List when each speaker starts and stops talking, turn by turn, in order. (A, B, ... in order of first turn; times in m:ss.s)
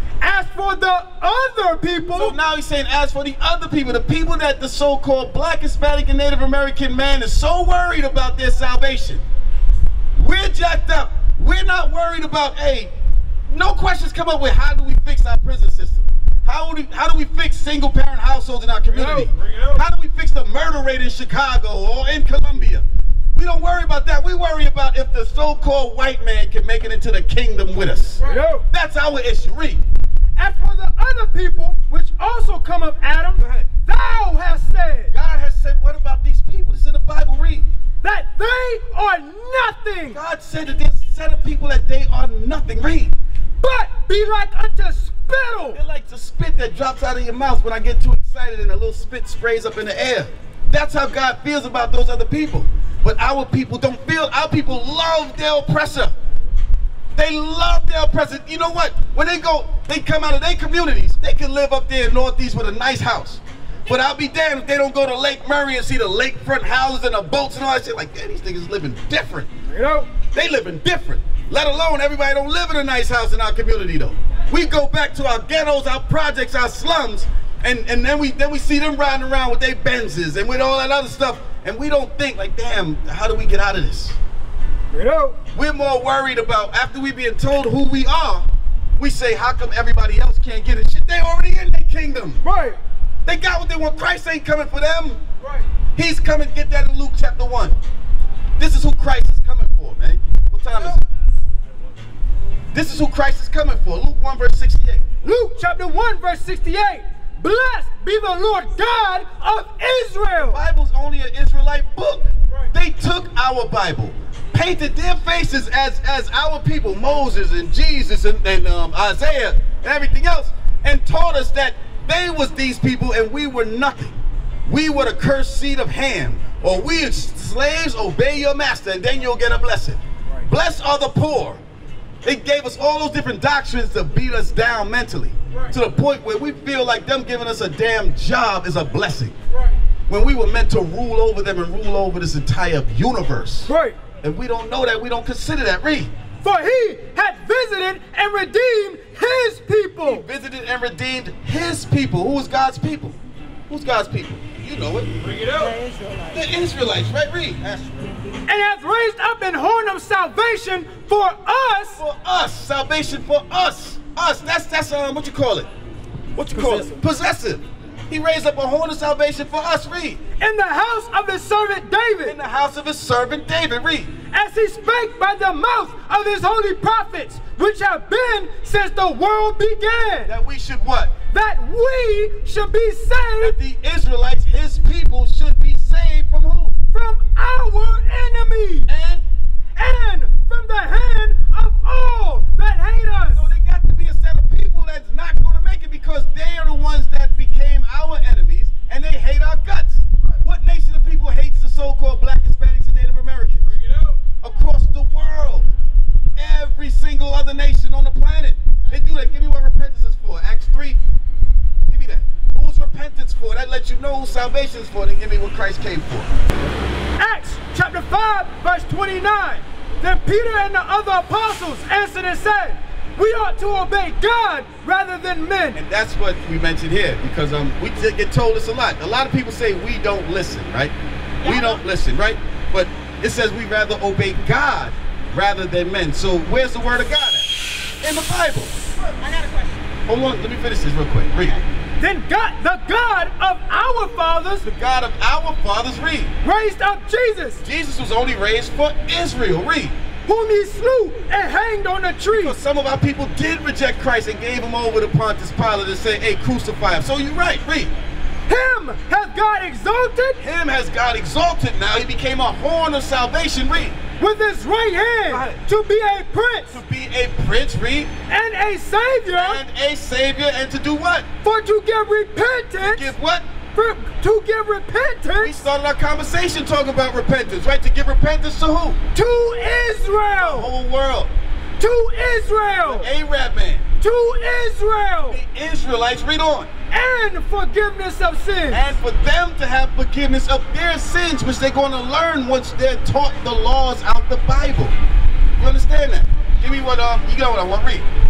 0:00.2-0:02.4 A
0:02.1-0:09.2 B
0:10.1-0:12.9 B
0:13.5-0:29.8 B
0:19.0-0:19.3 A
0:28.2-0:28.6 A
0:30.4-0:35.1 A
0:33.4-0:33.7 B
0:35.1-0:37.6 B
0:38.0-0:40.2 A
0:40.1-0:43.1 B
0:43.6-0:45.8 A
0:45.7-0:56.2 B
0:57.1-1:09.5 B
1:09.7-1:10.1 A
1:10.3-1:24.2 B
1:24.9-1:25.4 A
1:25.5-1:32.4 B
1:32.4-1:32.8 A
1:33.2-1:35.2 B
1:35.9-1:37.8 B
1:38.6-1:41.0 B
1:42.7-1:45.1 B
1:45.2-1:50.6 A
1:50.4-2:11.6 B
2:12.2-2:19.4 B
2:20.1-2:23.7 B
2:23.7-2:24.0 A
2:24.2-2:26.1 B
2:26.4-2:30.2 A
2:30.0-2:33.2 B
2:33.7-2:35.1 B
2:35.5-2:36.4 C
2:36.3-2:37.8 B
2:38.5-2:42.0 A
2:42.0-2:45.7 B
2:46.4-2:50.2 B
2:46.5-2:47.0 A
2:50.4-2:52.4 A
2:52.2-2:54.1 B
2:54.3-3:00.3 A
3:00.2-3:01.1 B
3:01.3-3:03.6 A
3:03.4-3:06.7 B
3:06.9-3:08.9 A
3:08.9-3:09.2 B
3:09.8-3:13.5 A
3:13.3-3:23.7 B
3:24.4-3:25.7 B
3:26.4-3:31.0 B
3:31.9-3:36.3 B
3:37.2-3:45.8 A
3:45.7-3:57.5 B
3:51.4-3:51.8 C
3:58.0-3:58.7 B
3:59.0-3:59.9 C
4:00.0-4:01.6 B
4:02.0-4:04.6 A
4:04.6-4:06.3 B
4:06.4-4:07.6 A
4:07.6-4:10.0 B
4:10.2-4:12.6 A
4:12.3-4:17.9 B
4:18.5-4:20.4 A
4:20.4-4:24.0 B
4:24.2-4:26.8 A
4:25.3-4:25.6 B
4:26.7-4:28.1 B
4:28.3-4:29.6 A
4:29.3-4:31.3 B
4:31.4-4:33.1 A
4:32.8-4:33.5 B
4:33.7-4:35.6 A
4:35.3-4:39.0 B
4:39.1-4:40.7 A
4:40.4-4:41.3 B
4:41.8-4:43.1 A
4:42.8-4:43.9 B
4:44.0-4:45.4 A
4:45.2-4:46.7 B
4:46.9-4:48.9 A
4:48.7-4:55.0 B
4:55.6-4:58.0 B